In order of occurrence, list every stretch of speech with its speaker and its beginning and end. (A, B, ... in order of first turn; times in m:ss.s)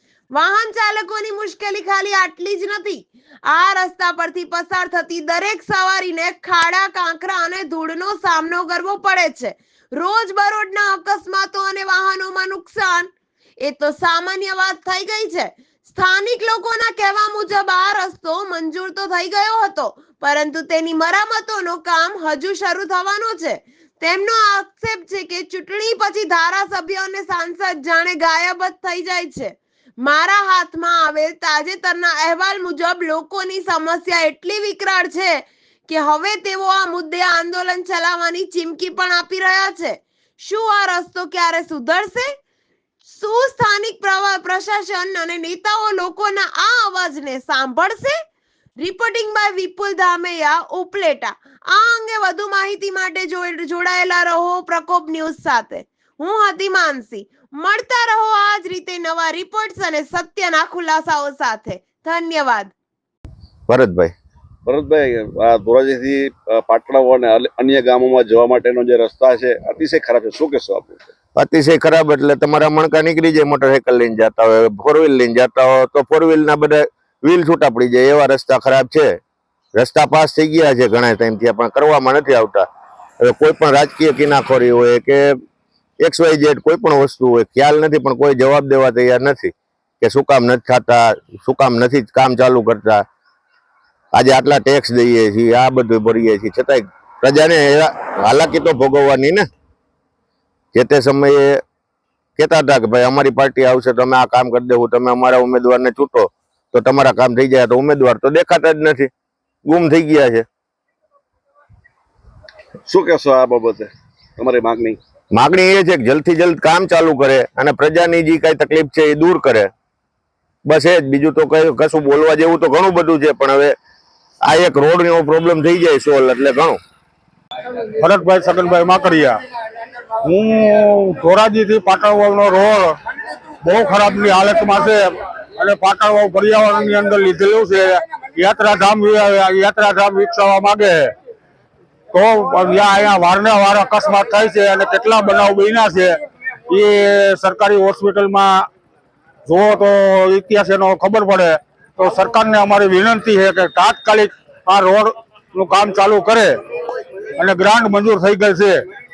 0:00.3-0:13.1 A
0:13.6-0:42.3 A
0:43.0-0:48.2 A
0:48.8-1:02.7 A
1:03.7-1:04.1 B
1:04.7-1:11.1 C
1:11.4-1:19.2 B
1:19.8-1:22.7 B
1:23.2-1:25.4 B
1:26.0-1:33.0 B
1:34.1-1:39.5 B
1:40.7-1:41.6 B
1:42.4-1:49.1 B
1:49.7-1:50.5 B
1:52.9-1:55.0 C
1:55.3-1:59.7 B
2:00.7-2:03.8 B
2:04.4-2:06.8 B
2:08.0-2:09.4 D
2:10.2-2:13.0 D
2:13.6-2:21.1 D
2:22.1-2:26.2 D
2:26.7-2:28.7 D
2:29.5-2:36.6 D
2:37.4-2:38.8 D